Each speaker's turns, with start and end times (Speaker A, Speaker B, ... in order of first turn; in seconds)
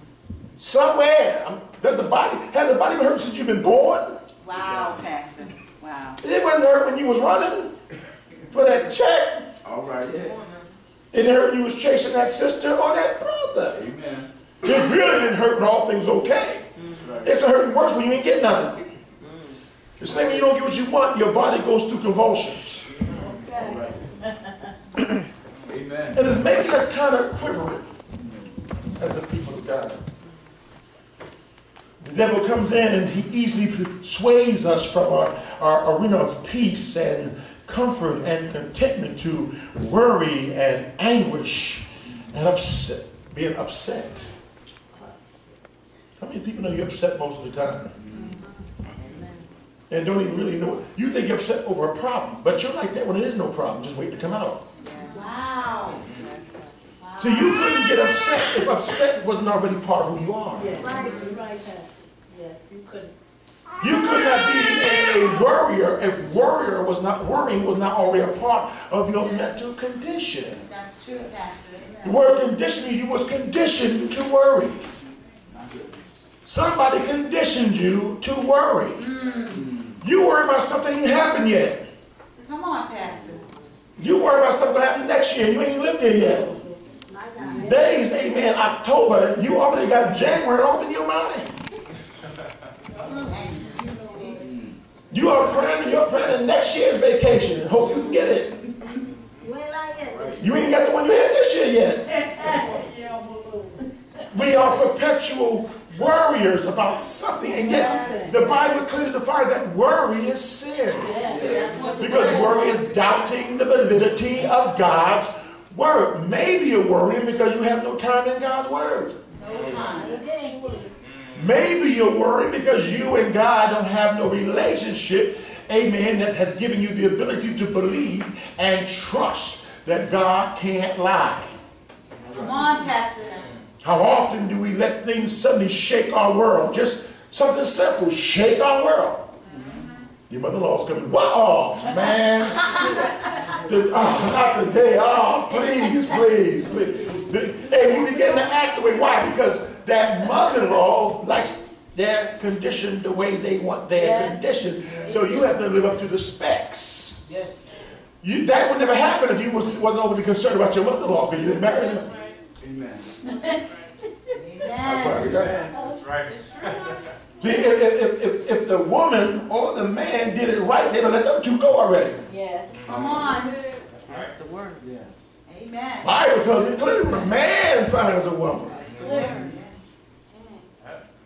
Speaker A: 0.6-4.2, 6.2-7.7, 8.5-9.5, 11.1-13.8, 14.6-16.7, 17.2-18.8, 20.0-22.9, 26.1-27.9, 29.0-30.0, 32.0-44.3, 46.2-47.9, 49.9-54.6, 57.2-60.9, 63.8-70.6, 72.0-74.8, 76.5-79.1, 80.0-81.8, 84.0-86.5, 87.6-91.6, 95.1-98.6, 100.4-102.3, 104.3-111.2, 112.0-119.2, 121.3-131.6, 133.8-139.3, 140.3-142.9, 143.6-157.2, 158.2-162.1, 164.8-165.6, 167.4-172.2, 176.0-178.8
Speaker B: 4.4-6.2, 54.8-56.2, 57.0-58.0, 60.8-61.4, 70.6-72.2, 79.0-79.6, 82.4-83.5, 87.3-87.7, 93.3-94.5, 99.4-100.4, 107.6-108.3, 111.2-112.9, 119.4-120.3, 132.3-133.5, 164.4-165.2, 172.8-173.6, 175.5-176.1, 178.9-179.7
Speaker C: 4.6-5.0, 9.6-10.4, 13.7-14.3, 17.0-17.4, 20.0-20.5, 23.5-24.1, 25.7-26.3, 28.1-28.5, 48.0-48.4, 75.5-76.0, 79.5-80.0, 94.4-95.5, 100.1-100.5, 111.2-111.9, 132.2-132.7, 162.6-163.3, 165.0-166.4, 172.8-173.4, 174.8-175.3
Speaker D: 10.2-10.7, 16.8-17.1, 19.2-19.6, 54.8-55.3, 56.0-56.7, 154.0-154.4, 157.3-157.6, 174.1-174.8, 178.8-179.5
Speaker E: 23.2-24.7, 60.5-63.1, 86.4-87.9, 93.0-93.3, 102.1-103.8, 107.5-108.6, 111.0-112.7, 119.7-120.9, 172.3-173.5, 179.0-179.5